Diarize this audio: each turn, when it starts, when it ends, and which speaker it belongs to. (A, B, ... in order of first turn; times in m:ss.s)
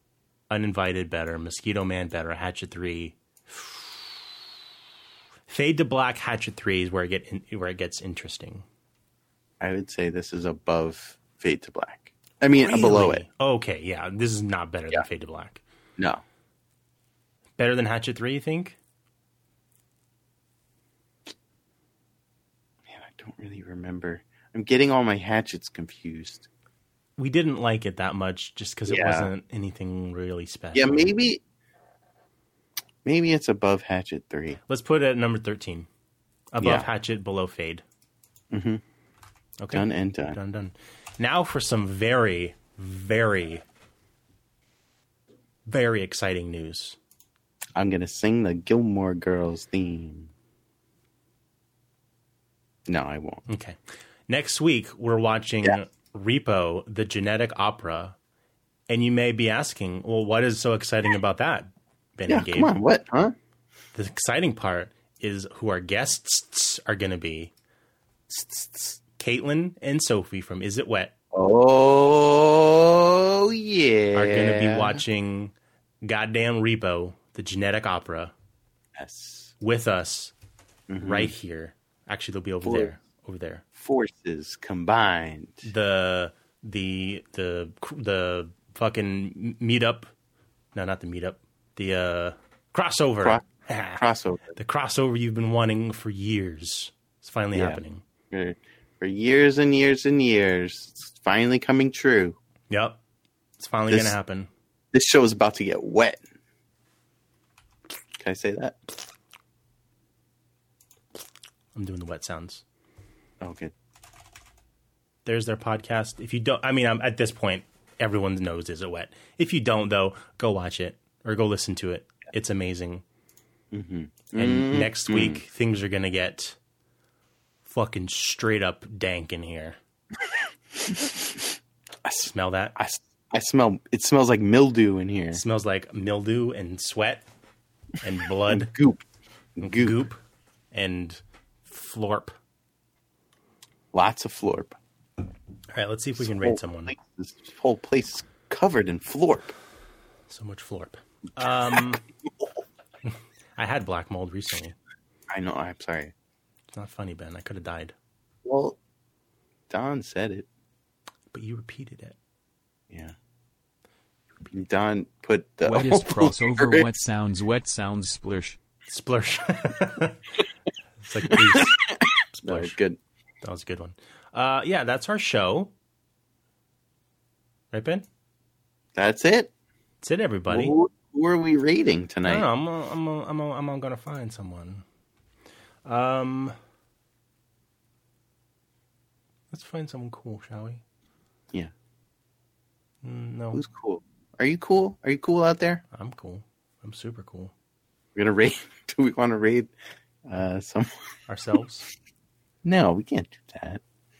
0:00.5-0:04.0 A
0:05.5-0:08.7 A
0:09.6-0:13.2 B
0:12.6-0:15.6 A
0:17.6-0:18.8 A
0:22.9-0:26.5 B
0:27.2-0:31.1 A
0:28.9-0:29.3 B
0:30.7-0:31.4 B
0:33.0-0:34.6 B
0:34.7-0:35.9 A
0:36.5-0:37.8 A
0:36.6-0:36.9 B
0:38.5-0:38.8 B
0:39.6-0:43.6 A
0:39.7-0:40.4 B
0:45.7-0:47.0 A
0:47.8-0:50.3 B
0:52.9-0:53.4 B
0:53.5-0:58.2 A
0:58.9-1:02.8 A
1:02.3-1:03.4 B
1:03.9-1:07.5 A
1:08.3-1:09.0 B
1:09.2-1:11.1 A
1:11.3-1:15.0 B
1:14.1-1:18.3 A
1:19.0-1:19.5 B
1:19.6-1:20.3 A
1:20.9-1:21.3 B
1:21.0-1:23.6 A
1:22.6-1:22.9 B
1:23.8-1:25.7 B
1:25.6-1:30.1 A
1:30.7-1:34.0 A
1:33.2-1:34.6 B
1:34.6-1:38.0 A
1:37.5-1:37.8 B
1:38.3-1:42.4 B
1:42.7-1:43.0 A
1:43.6-1:44.5 A
1:43.9-1:44.2 B
1:44.9-1:46.2 B
1:48.2-1:48.8 B
1:51.7-1:52.6 A
1:53.4-1:53.7 B
1:55.2-2:03.0 A
2:03.7-2:05.4 B
2:04.3-2:06.6 A
2:07.6-2:09.8 A
2:10.8-2:11.4 B
2:12.0-2:15.4 B
2:12.2-2:12.8 A
2:15.3-2:17.2 A
2:18.0-2:18.7 A
2:18.5-2:19.0 B
2:19.6-2:20.0 B
2:19.6-2:20.2 A
2:20.7-2:22.4 A
2:23.9-2:24.8 B
2:25.7-2:27.0 A
2:26.2-2:29.5 B
2:30.3-2:32.0 A
2:33.1-2:34.8 A
2:35.3-2:36.1 B
2:36.7-2:38.0 A
2:38.4-2:38.8 B
2:39.7-2:40.5 B
2:41.3-2:42.2 A
2:42.9-2:43.2 B
2:44.5-2:46.8 B
2:45.6-2:48.6 C
2:48.9-2:50.2 A
2:51.0-2:52.8 A
2:51.3-2:53.0 B
2:53.4-2:55.7 A
2:57.7-2:58.1 A
2:59.0-2:59.5 B
3:00.0-3:00.8 A
3:00.5-3:02.5 B
3:02.2-3:04.8 A
3:05.8-3:06.6 A
3:09.5-3:10.8 A
3:13.0-3:13.6 A
3:13.5-3:15.8 B
3:15.9-3:17.5 A
3:18.2-3:19.7 B
3:20.3-3:21.1 B
3:21.3-3:21.9 A
3:22.6-3:23.8 B